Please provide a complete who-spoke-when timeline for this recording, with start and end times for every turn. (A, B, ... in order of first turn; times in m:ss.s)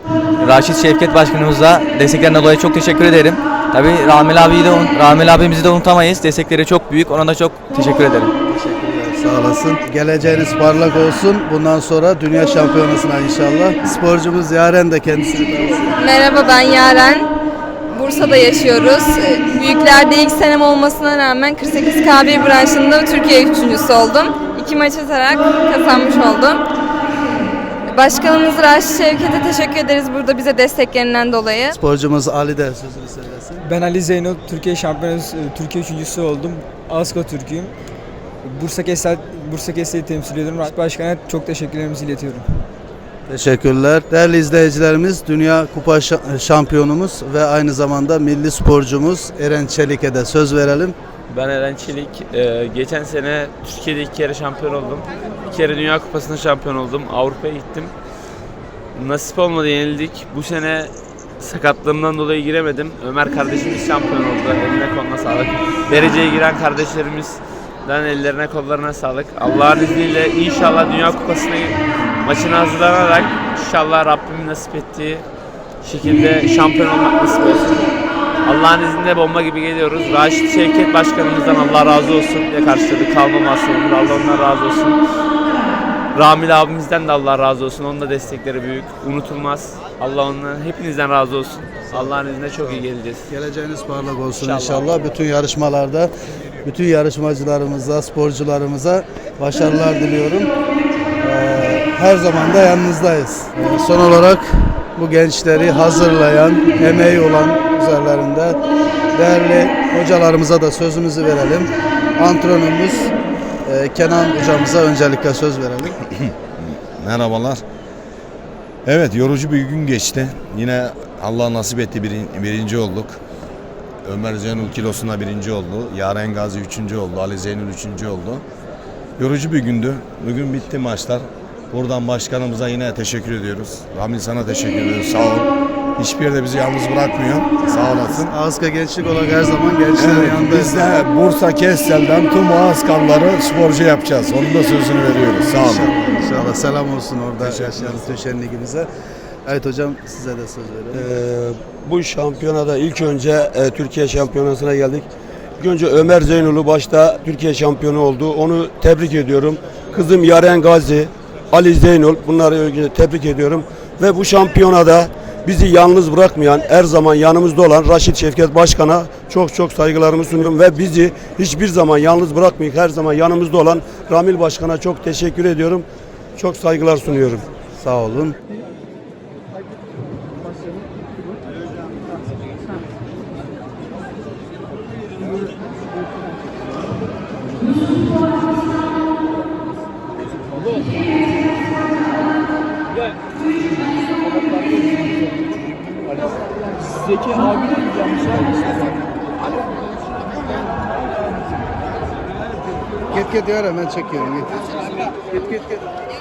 0:00.4-0:08.3 A
0:08.5-0:16.0 B
0:16.0-0:17.3 C
0:17.9-0:26.6 C
0:27.9-0:31.8 C
0:31.8-0:33.7 B
0:33.6-0:37.7 D
0:38.4-0:42.5 D
0:43.3-0:51.0 B
0:51.3-0:57.9 E
0:59.0-1:15.2 E
1:15.8-1:17.9 E
1:18.4-1:25.0 E
1:26.2-1:33.3 E
1:31.9-1:36.1 B
1:34.4-1:34.9 E
1:36.6-1:40.5 B
1:41.2-1:48.6 B
1:49.2-1:53.1 B
1:53.6-1:56.0 B
1:56.1-1:57.6 F
1:58.9-2:03.2 F
2:04.0-2:08.4 F
2:09.2-2:18.3 F
2:18.1-2:21.1 B
2:20.0-2:25.9 F
2:25.5-2:28.9 B
2:27.4-2:28.2 F
2:29.5-2:31.1 B
2:30.9-2:35.1 G
2:35.6-2:55.9 G
2:56.4-2:57.5 G
2:57.8-2:58.4 B
3:23.1-3:24.6 B
3:25.2-3:25.8 B